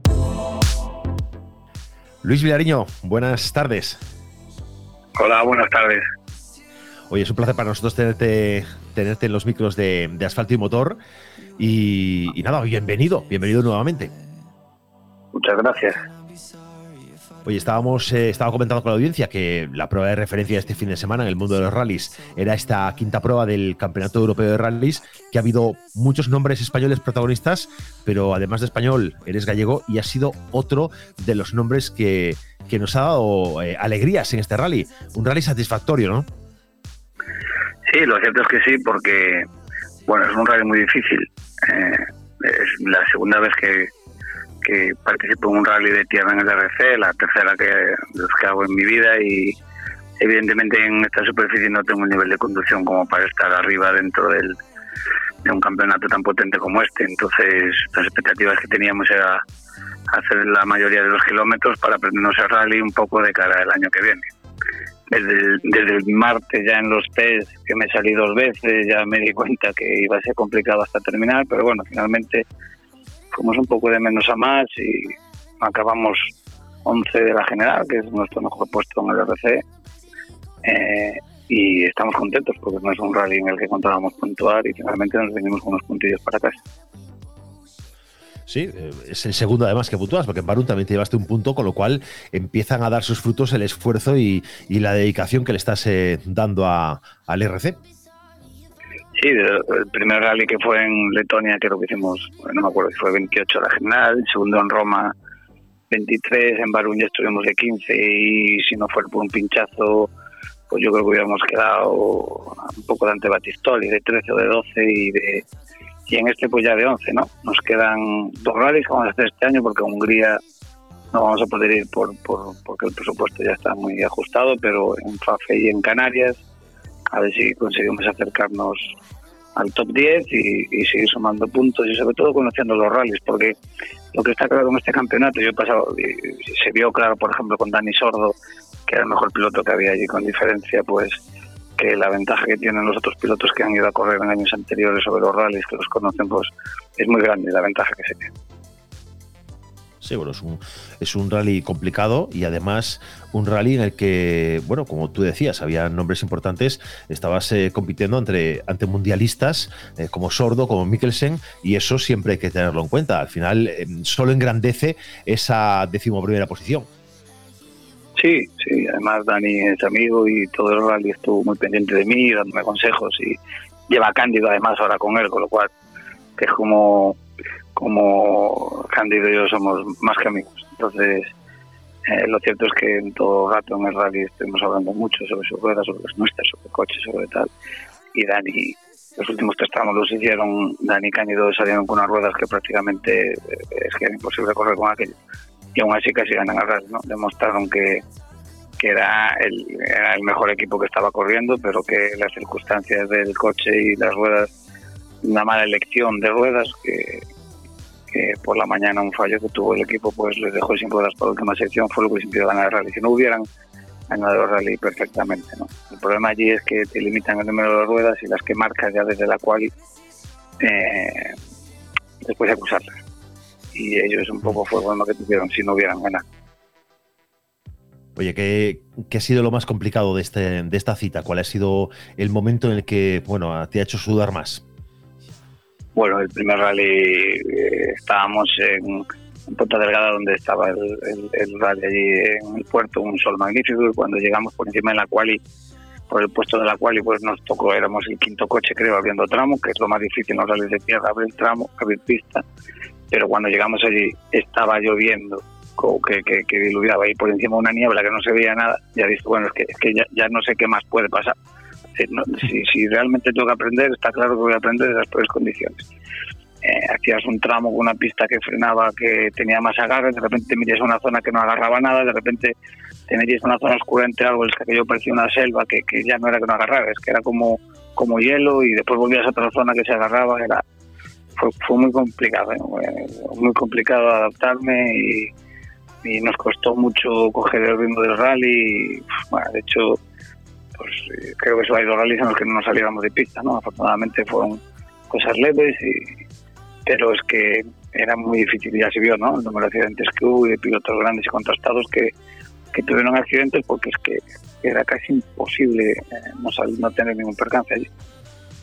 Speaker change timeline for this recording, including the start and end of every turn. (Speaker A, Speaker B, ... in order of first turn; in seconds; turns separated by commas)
Speaker A: 2.2-4.0, Speaker B: 5.2-6.0, Speaker A: 7.1-11.0, Speaker A: 11.6-14.1, Speaker B: 15.3-16.0, Speaker A: 17.4-36.3, Speaker B: 37.9-39.5, Speaker B: 40.1-43.9, Speaker B: 44.6-49.6, Speaker B: 50.2-54.6, Speaker B: 55.5-59.4, Speaker B: 60.1-64.3, Speaker B: 65.1-72.5, Speaker B: 73.3-76.3, Speaker B: 76.8-79.6, Speaker B: 80.6-86.6, Speaker A: 88.5-97.8, Speaker B: 99.2-105.1, Speaker B: 105.9-110.1, Speaker B: 110.7-115.5, Speaker B: 116.1-120.4, Speaker B: 121.1-126.4, Speaker B: 127.1-129.0, Speaker B: 129.6-133.6, Speaker B: 134.1-138.4, Speaker B: 138.9-141.2, Speaker B: 141.8-148.3, Speaker A: 150.0-166.9, Speaker B: 168.2-175.7, Speaker B: 176.4-177.2, Speaker B: 177.8-181.3, Speaker B: 182.1-187.5, Speaker B: 188.1-195.2, Speaker B: 195.8-198.0, Speaker B: 198.8-204.5, Speaker B: 205.2-207.2, Speaker B: 208.1-213.5, Speaker B: 214.1-219.7, Speaker B: 220.6-221.4, Speaker B: 222.2-223.0, Speaker B: 223.7-226.2, Speaker A: 228.2-234.6, Speaker B: 235.9-245.4, Speaker B: 246.1-252.4, Speaker B: 253.1-261.4, Speaker B: 262.0-265.9, Speaker B: 266.6-272.5, Speaker B: 273.1-280.6, Speaker B: 281.4-285.3, Speaker B: 286.0-290.0, Speaker B: 290.8-296.2, Speaker B: 296.9-302.1, Speaker B: 302.7-307.9